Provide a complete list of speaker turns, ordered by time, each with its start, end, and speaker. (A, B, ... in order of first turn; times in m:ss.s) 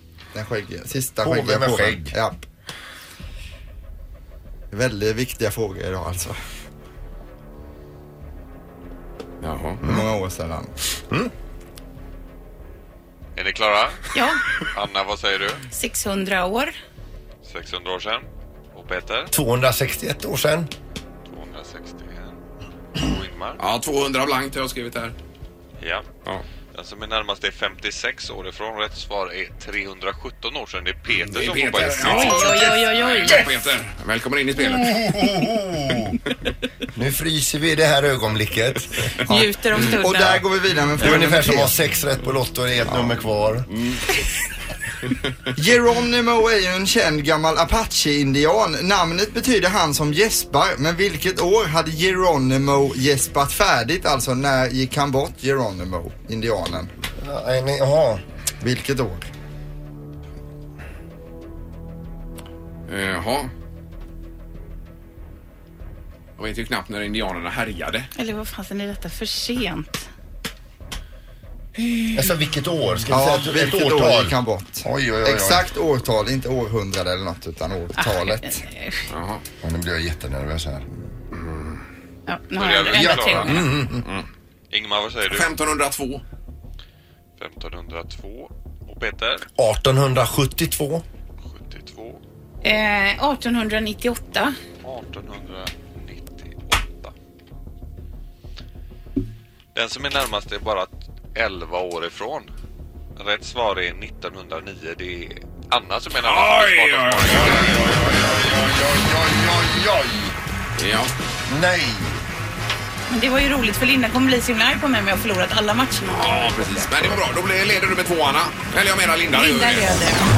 0:00.3-0:02.4 A
0:01.2-0:02.2 B
0:04.7-0:06.4 A
0:09.4-0:09.8 C
0:09.8-0:10.7 A
0:13.4-0:14.0 D
0:14.1-0:14.4 E
0:14.7-0:15.6 D
0:15.7-0:16.7 E
0:17.4-0:19.3 D
0:19.3-0:20.7 B
0:21.3-0:22.4 D
0:23.0-0:23.6 D
0:23.6-0:25.2 C
0:25.8-0:26.1 D
0:26.7-0:32.5 D
0:31.1-0:35.5 C
0:32.0-0:33.5 E
0:34.7-0:36.2 B
0:37.0-0:39.0 B
0:39.3-0:40.4 E
0:39.3-0:41.7 A
0:41.0-0:43.7 B
0:42.9-0:43.1 C
0:43.7-0:44.0 C
0:45.6-0:56.9 A
0:57.2-0:58.2 B
0:58.6-0:59.3 A
1:02.9-1:03.5 C
1:06.4-1:08.1 C
1:08.2-1:10.1 E
1:12.1-1:15.7 B
1:13.1-1:18.6 A
1:18.0-1:19.0 E
1:19.1-1:19.4 C
1:19.6-1:20.9 B
1:22.3-1:23.7 E
1:22.6-1:23.7 D
1:22.9-1:24.0 B
1:24.7-1:25.5 D
1:25.3-1:26.2 C
1:27.4-1:29.4 D
1:29.6-1:31.0 B
1:31.4-1:32.2 D
1:32.6-1:34.6 E
1:34.8-1:37.1 D
1:39.7-1:42.5 D
1:43.2-1:47.8 D
1:46.2-1:48.3 C
1:48.0-1:50.4 B
1:50.8-1:51.1 C
1:51.5-1:52.2 B
1:53.1-1:56.9 E
1:56.1-2:00.1 C
1:59.3-2:00.3 E